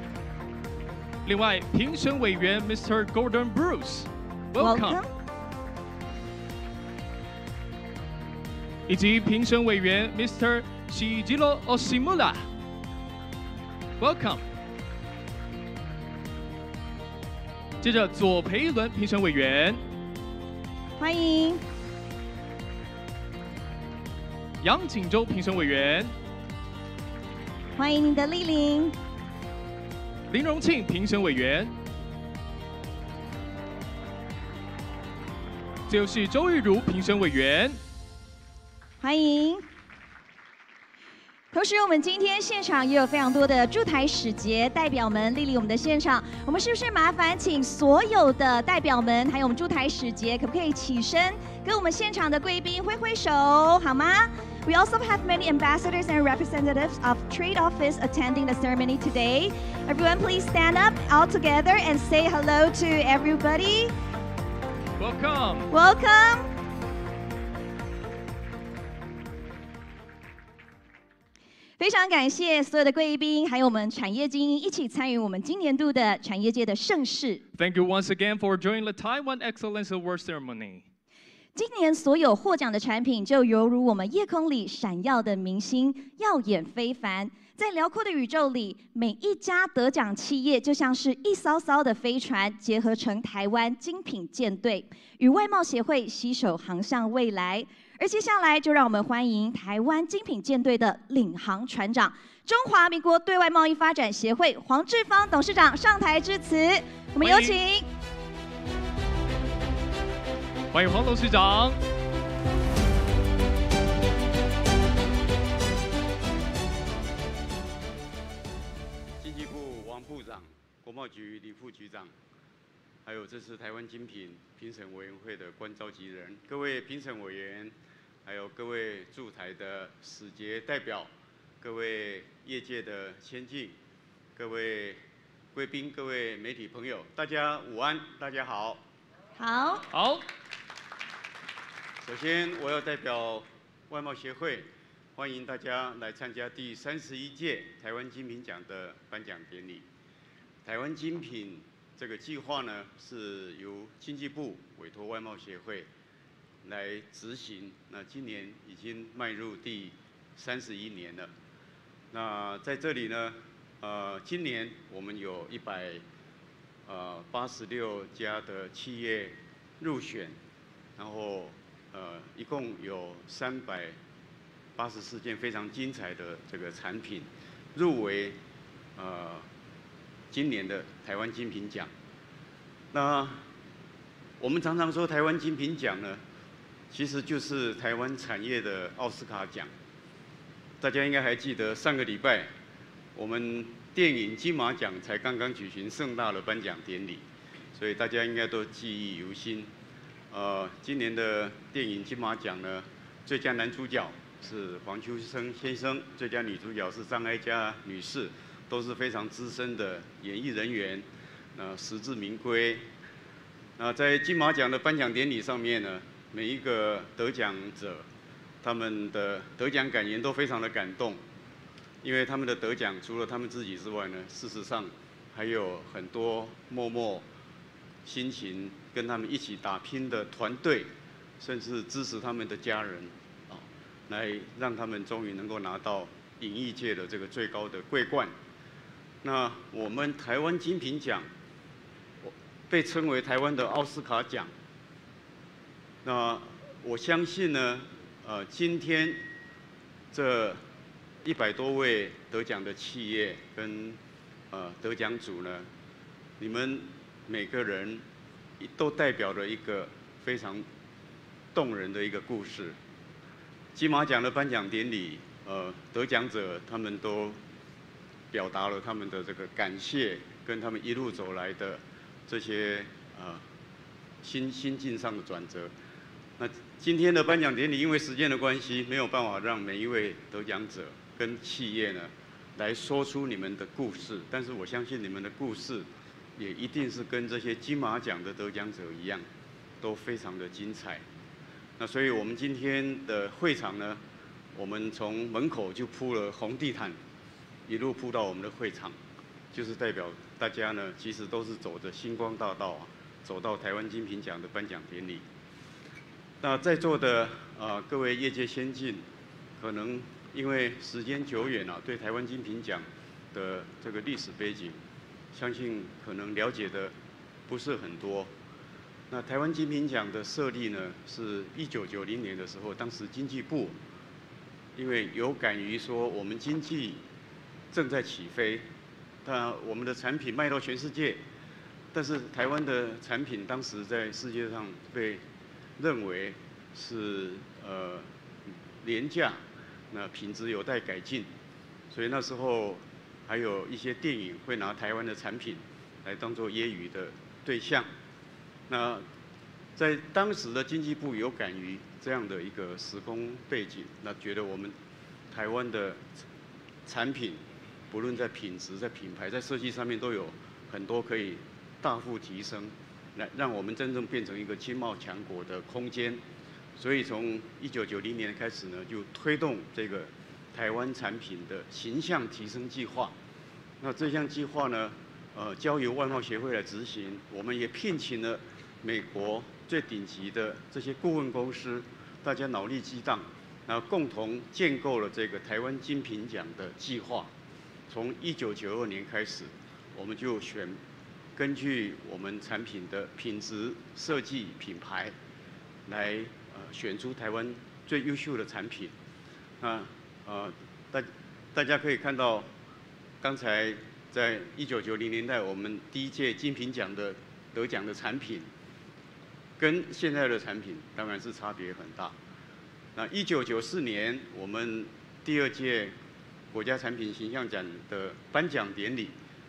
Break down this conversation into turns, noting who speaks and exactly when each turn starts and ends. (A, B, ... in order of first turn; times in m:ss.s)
0:01.2-0:05.0 A
0:04.6-0:05.1 B
0:08.9-0:12.4 A
0:14.0-0:14.4 A
0:17.8-0:19.8 A
0:21.0-0:21.6 B
0:24.6-0:26.1 A
0:27.8-0:28.9 B
0:30.3-0:31.7 A
0:35.9-0:37.8 A
0:39.0-0:39.6 B
0:41.5-1:03.9 B
1:05.0-1:05.7 A
1:05.7-1:06.5 B
1:11.8-1:17.4 B
1:17.6-1:20.8 A
1:21.5-1:47.9 B
1:47.2-1:47.5 A
1:50.7-1:51.8 A
1:59.2-2:02.1 C
2:03.0-2:07.7 C
2:08.2-2:13.8 C
2:14.4-2:15.0 C
2:15.5-2:18.8 C
2:19.4-2:19.8 B
2:19.9-2:20.2 A
2:22.0-2:29.9 C
2:30.6-2:35.9 C
2:36.6-2:41.3 C
2:42.1-2:46.0 C
2:46.8-2:50.4 C
2:51.0-2:54.0 C
2:54.8-2:58.4 C
2:59.0-2:59.5 C
3:00.3-3:01.9 C
3:02.9-3:03.4 C
3:04.4-3:06.2 C
3:06.9-3:09.7 C
3:10.8-3:12.5 C
3:13.1-3:19.7 C
3:20.3-3:32.9 C
3:33.8-3:38.1 C
3:38.6-3:41.2 C
3:42.0-3:47.2 C
3:48.0-3:58.3 C
3:59.2-4:01.3 C
4:02.2-4:04.5 C
4:06.0-4:09.2 C
4:10.1-4:10.6 C
4:11.2-4:14.0 C
4:14.5-4:15.7 C
4:16.4-4:18.0 C
4:18.6-4:20.6 C
4:21.5-4:22.8 C
4:23.7-4:27.4 C
4:28.3-4:33.4 C
4:34.2-4:35.7 C
4:36.4-4:49.3 C
4:49.8-4:51.0 C
4:51.8-4:54.0 C
4:54.5-4:57.0 C
4:57.6-4:59.0 C
4:59.5-5:05.2 C
5:06.4-5:09.0 C
5:09.6-5:14.8 C
5:15.3-5:16.9 C
5:17.5-5:18.3 C
5:19.1-5:23.8 C
5:24.8-5:27.0 C
5:27.7-5:28.6 C
5:29.2-5:31.2 C
5:31.9-5:35.2 C
5:35.8-5:41.3 C
5:41.9-5:47.9 C
5:48.7-5:49.0 C
5:49.8-5:54.8 C
5:55.3-5:56.1 C
5:56.8-6:06.2 C
6:06.8-6:13.1 C
6:13.8-6:27.3 C
6:27.9-6:30.8 C
6:31.4-6:35.2 C
6:35.8-6:38.9 C
6:39.6-6:42.5 C
6:43.2-6:48.5 C
6:49.6-6:52.2 C
6:52.9-6:56.0 C
6:56.5-6:59.2 C